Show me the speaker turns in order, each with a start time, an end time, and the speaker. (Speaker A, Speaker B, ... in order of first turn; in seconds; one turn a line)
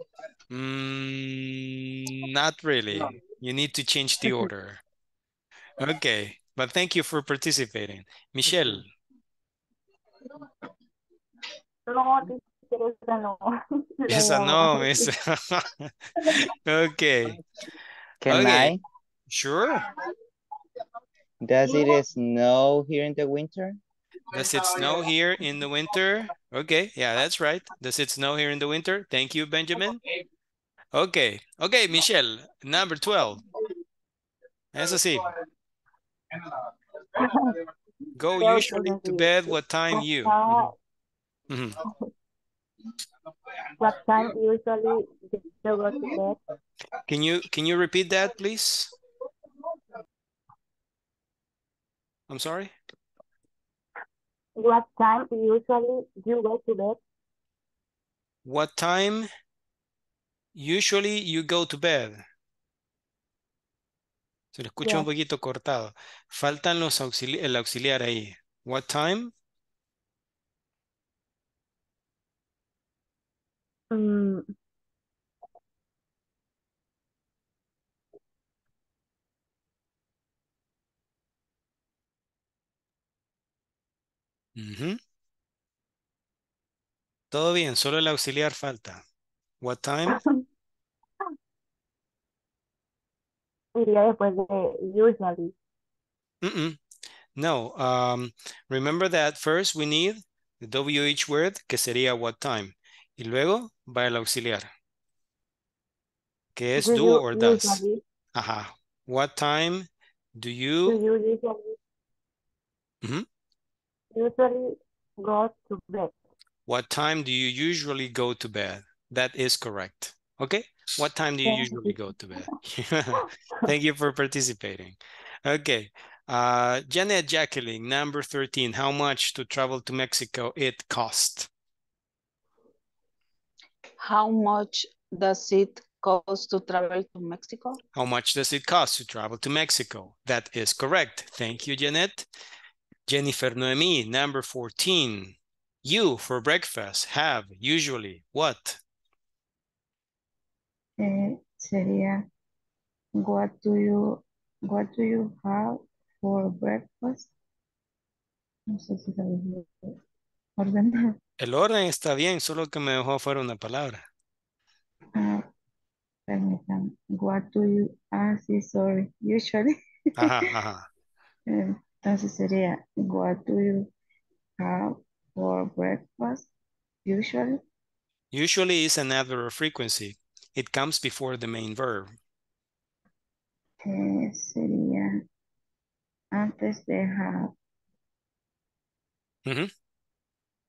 Speaker A: 0.5-4.8
Speaker A: 5.8-8.9
Speaker B: 11.9-15.1
Speaker A: 14.1-17.4
Speaker C: 18.2-18.8
Speaker A: 18.3-18.8
Speaker A: 19.3-19.9
Speaker C: 21.4-23.8
Speaker A: 24.3-30.0
Speaker A: 30.9-33.4
Speaker A: 34.7-35.3
Speaker B: 37.2-37.6
Speaker A: 38.2-40.7
Speaker B: 38.3-40.7
Speaker A: 41.5-41.8
Speaker B: 43.8-46.4
Speaker A: 47.1-48.9
Speaker A: 52.3-52.7
Speaker B: 54.6-57.0
Speaker A: 58.5-59.3
Speaker A: 60.5-62.2
Speaker A: 64.5-69.3
Speaker B: 64.8-65.1
Speaker B: 73.9-74.5
Speaker A: 84.6-85.0
Speaker A: 87.3-89.0
Speaker A: 89.6-90.2
Speaker B: 93.8-95.5
Speaker A: 96.4-96.8
Speaker A: 97.4-104.7
Speaker A: 106.5-107.8
Speaker B: 106.8-108.0
Speaker A: 108.3-111.0
Speaker B: 110.9-111.8
Speaker B: 114.1-116.1
Speaker A: 116.7-131.5
Speaker B: 121.4-122.5
Speaker D: 134.0-137.8
Speaker A: 137.9-142.3
Speaker A: 143.1-148.8
Speaker E: 151.0-152.2
Speaker E: 153.2-157.3
Speaker E: 158.7-160.0
Speaker E: 160.6-161.2
Speaker A: 161.4-164.0
Speaker E: 165.2-165.5
Speaker E: 166.3-170.3
Speaker A: 170.2-170.9
Speaker E: 171.5-173.9
Speaker E: 174.6-176.5
Speaker E: 177.1-177.6
Speaker A: 178.3-182.1
Speaker E: 183.8-185.2
Speaker E: 186.3-187.5